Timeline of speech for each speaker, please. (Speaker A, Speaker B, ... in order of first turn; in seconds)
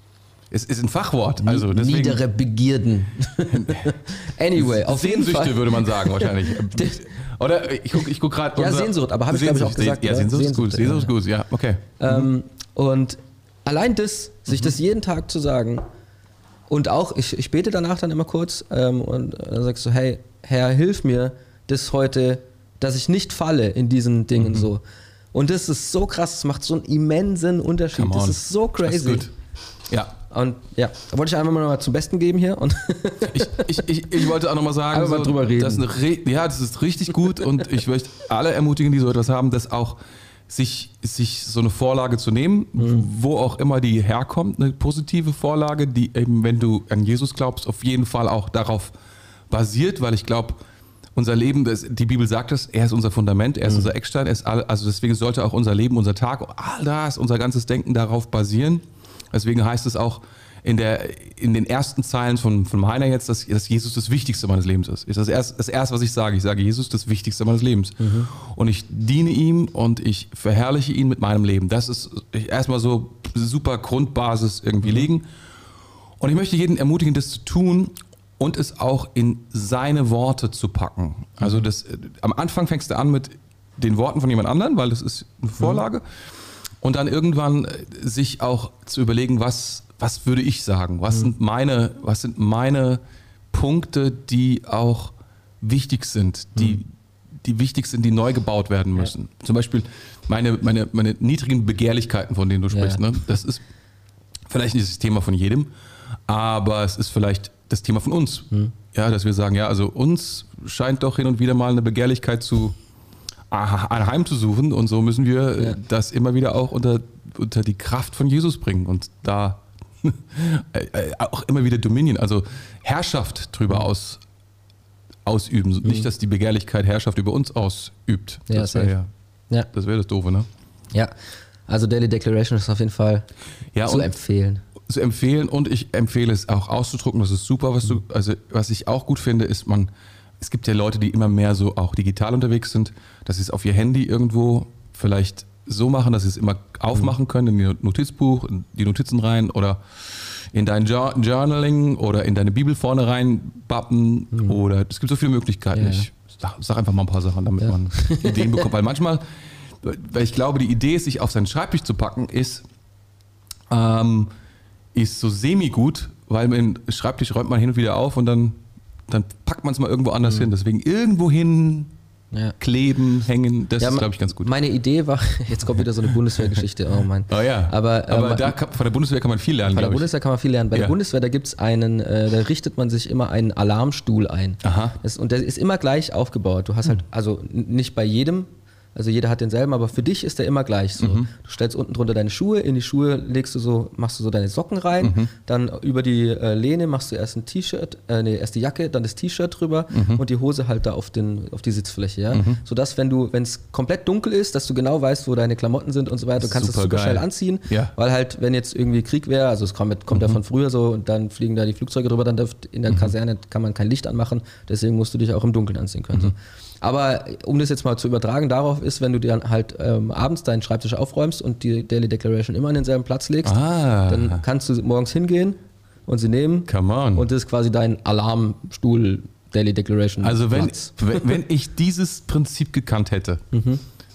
Speaker A: 0.5-2.2, 3.5-3.9, 4.5-12.3, 28.0-29.3, 29.9-30.1, 33.3-48.9, 49.5-50.6, 51.1-75.3, 76.2-86.0, 86.8-93.0, 93.5-96.9, 97.4-103.6, 104.5-105.7, 106.3-112.8, 113.5-124.2, 125.2-129.1, 129.7-130.5, 133.7-134.1, 134.9-162.6, 163.7-164.3, 164.9-171.9, 172.6-174.5, 175.6-176.6, 177.3-180.1, 184.6-185.0, 191.0-191.3, 195.0-195.3, 199.9-200.2, 202.3-202.6, 206.4-207.9, 210.1-210.4, 223.4-224.4, 226.7-227.3, 230.2-233.4
Speaker B: 1.4-7.0, 8.6-11.1, 12.0-15.8, 16.7-24.8, 25.3-29.3, 30.3-34.3, 34.9-35.9, 42.8-43.1, 68.0-68.3, 102.7-103.0, 128.5-128.9, 131.7-133.3, 133.8-134.6, 155.7-156.1, 157.6-158.7, 173.8-178.6, 179.7-231.2, 233.5-233.8